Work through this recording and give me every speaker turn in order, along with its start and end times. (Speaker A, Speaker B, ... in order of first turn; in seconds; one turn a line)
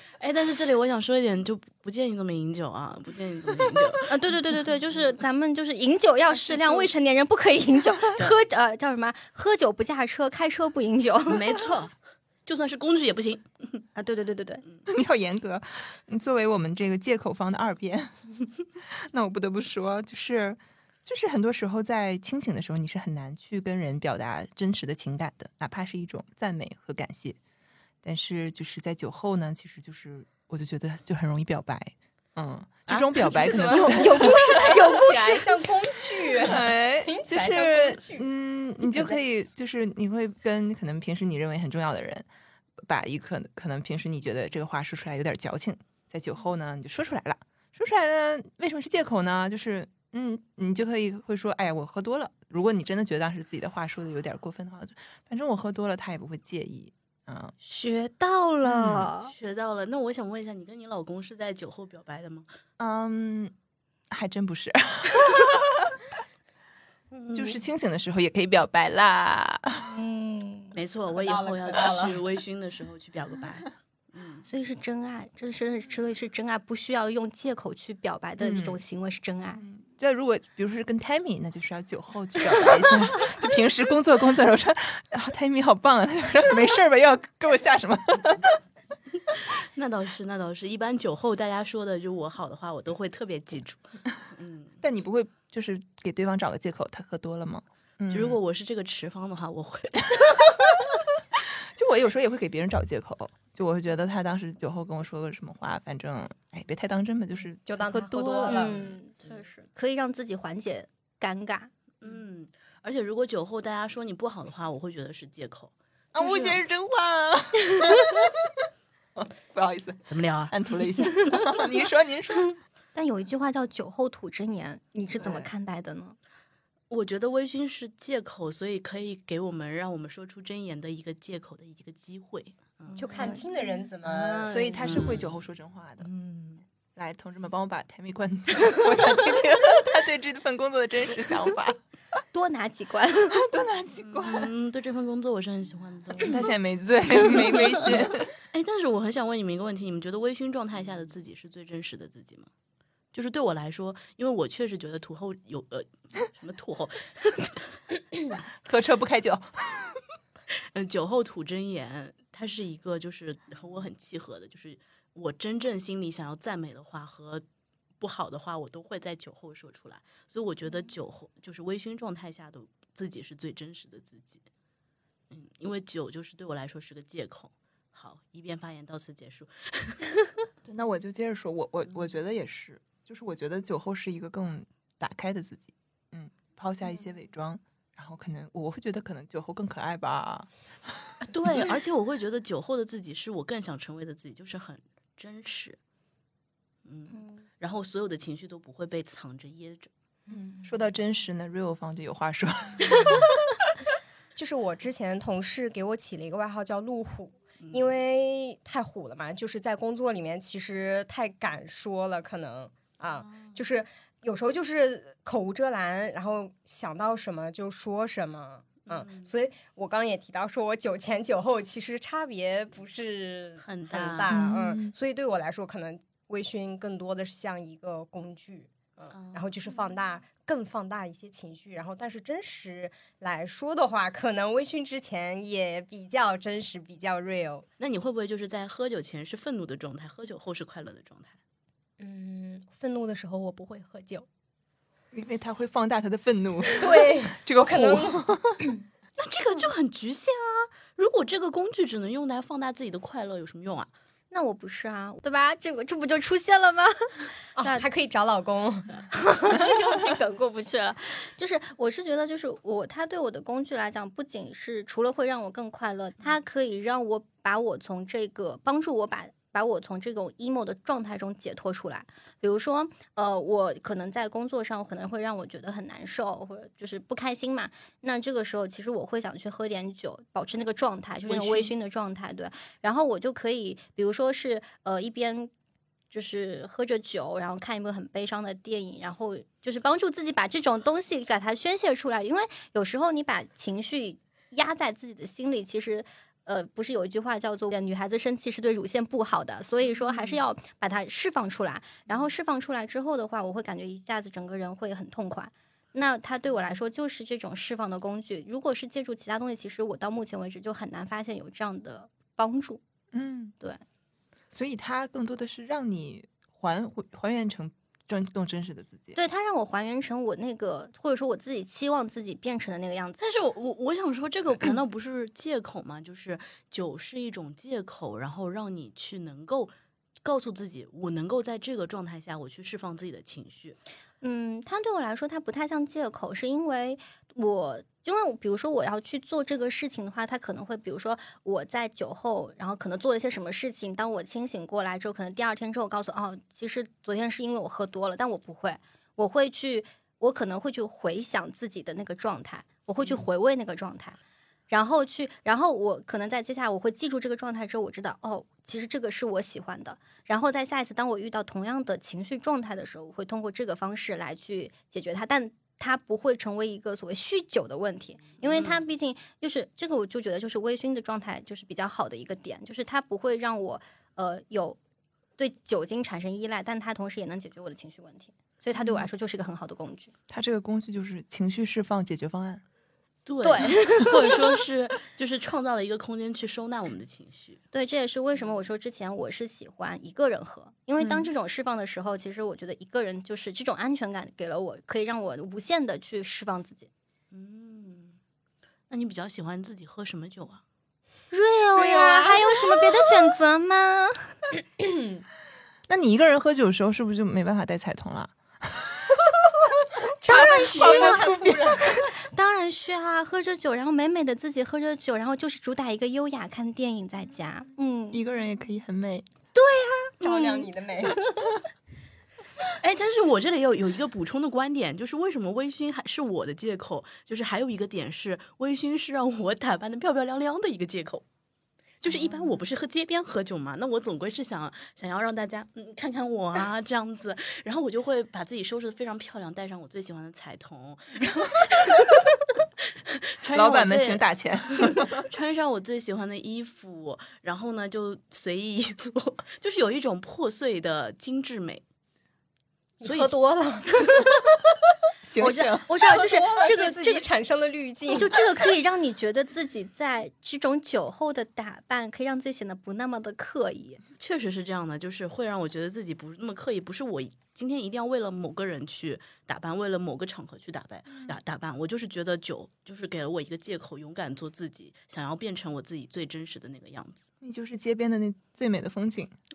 Speaker A: 0.2-4.1
Speaker B: 4.1-11.5
Speaker A: 11.3-11.9
Speaker A: 12.5-13.8
Speaker B: 14.0-14.6
Speaker C: 14.9-18.1
Speaker C: 19.1-27.4
Speaker C: 28.0-34.9
Speaker A: 32.9-33.7
Speaker D: 33.2-38.3
Speaker B: 33.7-35.5
Speaker C: 36.4-42.3
Speaker D: 38.8-39.1
Speaker C: 42.8-57.5
Speaker B: 57.6-59.3
Speaker C: 58.6-59.1
Speaker A: 59.3-62.5
Speaker C: 62.8-63.5
Speaker C: 64.1-65.9
Speaker A: 67.1-67.6
Speaker C: 67.3-69.9
Speaker B: 69.8-70.8
Speaker A: 70.8-74.5
Speaker D: 71.1-72.2
Speaker B: 74.5-79.6
Speaker C: 78.4-78.8
Speaker C: 79.6-88.6
Speaker A: 89.3-94.8
Speaker C: 94.8-98.4
Speaker A: 98.1-101.0
Speaker C: 101.7-108.7
Speaker D: 107.7-108.8
Speaker B: 108.5-111.7
Speaker A: 112.0-116.5
Speaker C: 116.1-118.3
Speaker C: 119.2-122.6
Speaker A: 120.1-120.5
Speaker B: 123.0-126.2
Speaker A: 126.9-133.4
Speaker D: 133.0-134.6
Speaker B: 133.0-135.2
Speaker C: 134.4-136.1
Speaker A: 134.8-135.4
Speaker A: 136.0-136.6
Speaker C: 136.9-141.8
Speaker B: 142.3-143.5
Speaker C: 143.3-144.5
Speaker A: 144.1-146.4
Speaker C: 146.2-148.3
Speaker A: 147.5-152.5
Speaker A: 153.1-157.6
Speaker C: 158.7-160.0
Speaker A: 160.7-167.4
Speaker A: 168.0-174.4
Speaker A: 175.3-180.3
Speaker C: 180.7-191.2
Speaker A: 191.3-195.8
Speaker A: 196.8-199.9
Speaker B: 197.1-197.4
Speaker D: 200.3-200.6
Speaker C: 200.6-203.3
Speaker D: 204.3-237.7
Speaker A: 207.6-207.9
Speaker A: 213.2-213.6
Speaker A: 218.9-219.3
Speaker A: 223.6-224.3
Speaker C: 224.3-224.9
Speaker A: 229.1-229.8
Speaker A: 237.8-241.4
Speaker D: 242.0-244.3
Speaker C: 245.1-248.6
Speaker D: 246.7-248.3
Speaker A: 249.2-253.9
Speaker B: 254.3-257.8
Speaker D: 257.6-259.1
Speaker B: 259.1-285.5
Speaker A: 281.3-281.6
Speaker B: 286.1-312.8
Speaker A: 300.1-300.4
Speaker C: 313.1-313.5
Speaker C: 314.5-319.2
Speaker B: 319.2-323.2
Speaker A: 323.2-329.7
Speaker A: 330.2-333.8
Speaker B: 334.2-354.2
Speaker B: 354.7-374.8
Speaker A: 368.4-368.8
Speaker B: 375.4-380.1
Speaker C: 380.3-382.6
Speaker A: 383.3-387.6
Speaker B: 383.4-384.4
Speaker B: 387.7-396.9
Speaker A: 397.3-398.2
Speaker A: 398.9-400.6
Speaker B: 401.3-404.4
Speaker D: 401.8-402.9
Speaker D: 404.8-405.2
Speaker C: 405.9-409.5
Speaker D: 410.2-411.9
Speaker C: 410.2-412.1
Speaker B: 410.3-411.5
Speaker B: 412.1-418.2
Speaker C: 418.1-419.3
Speaker B: 419.6-420.5
Speaker D: 420.2-421.2
Speaker A: 422.8-431.2
Speaker A: 432.0-442.0
Speaker C: 432.1-432.6
Speaker A: 443.4-451.8
Speaker C: 443.5-445.2
Speaker D: 453.0-454.2
Speaker A: 453.0-453.4
Speaker C: 455.3-455.9
Speaker B: 455.4-457.3
Speaker D: 456.0-458.4
Speaker B: 458.1-464.0
Speaker A: 464.2-477.3
Speaker C: 471.1-471.4
Speaker C: 477.4-479.3